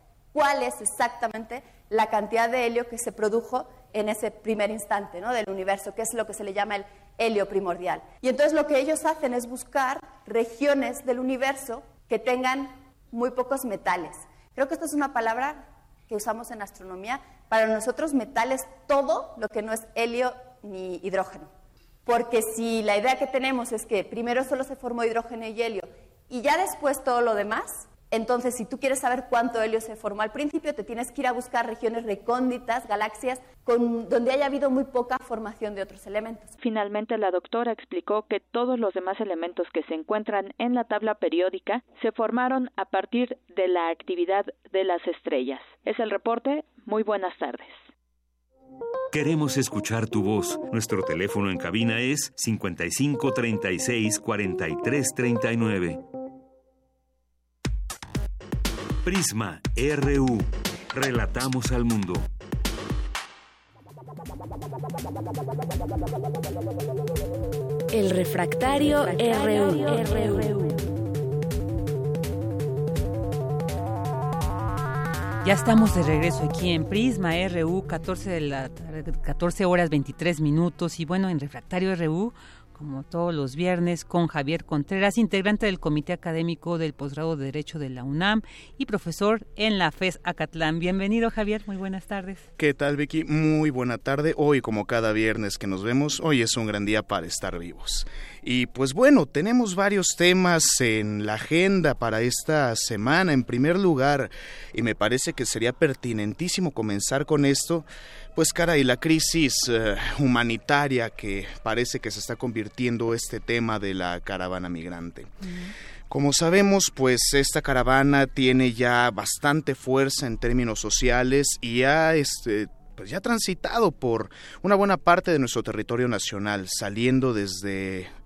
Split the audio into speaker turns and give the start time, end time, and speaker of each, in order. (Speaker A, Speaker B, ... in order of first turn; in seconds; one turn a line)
Speaker A: 0.3-21.5
Speaker A: 22.1-36.6
Speaker B: 36.6-47.8
Speaker C: 49.1-56.0
Speaker C: 59.0-62.3
Speaker D: 67.9-70.8
Speaker E: 75.4-92.5
Speaker F: 92.6-115.3
Speaker F: 116.1-128.1